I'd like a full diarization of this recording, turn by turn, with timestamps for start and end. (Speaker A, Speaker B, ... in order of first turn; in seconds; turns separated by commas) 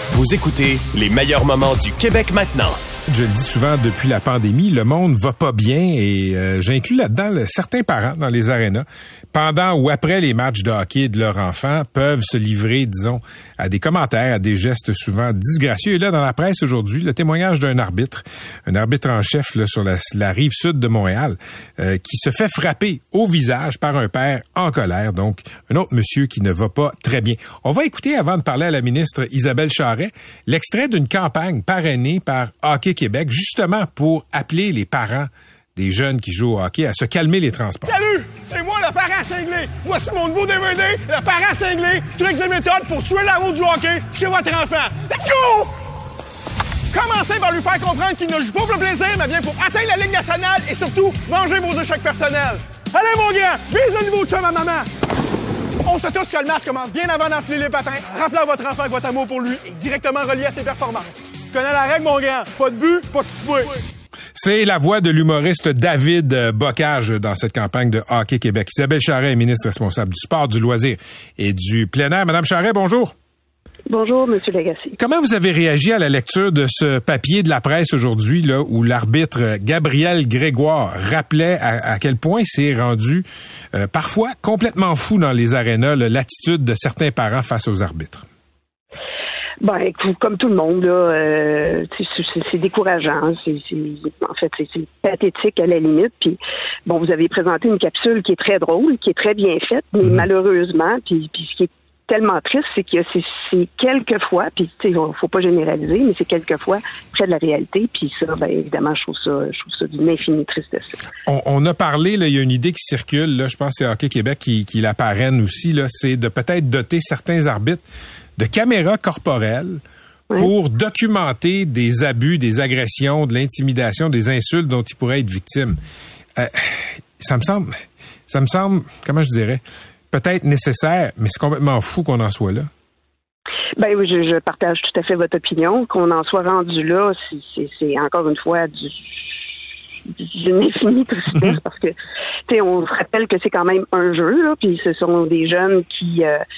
Speaker A: 0.1-2.8, Speaker B: 3.1-38.0, Speaker C: 37.9-45.7, Speaker C: 46.9-54.9, Speaker C: 55.8-63.8, Speaker B: 64.3-73.1, Speaker D: 73.9-75.0, Speaker B: 75.0-88.2, Speaker D: 89.6-111.0, Speaker B: 111.2-117.8, Speaker B: 118.4-119.8, Speaker B: 120.3-125.8, Speaker B: 126.4-132.7, Speaker D: 133.8-139.0, Speaker D: 140.1-141.9, Speaker D: 142.5-146.4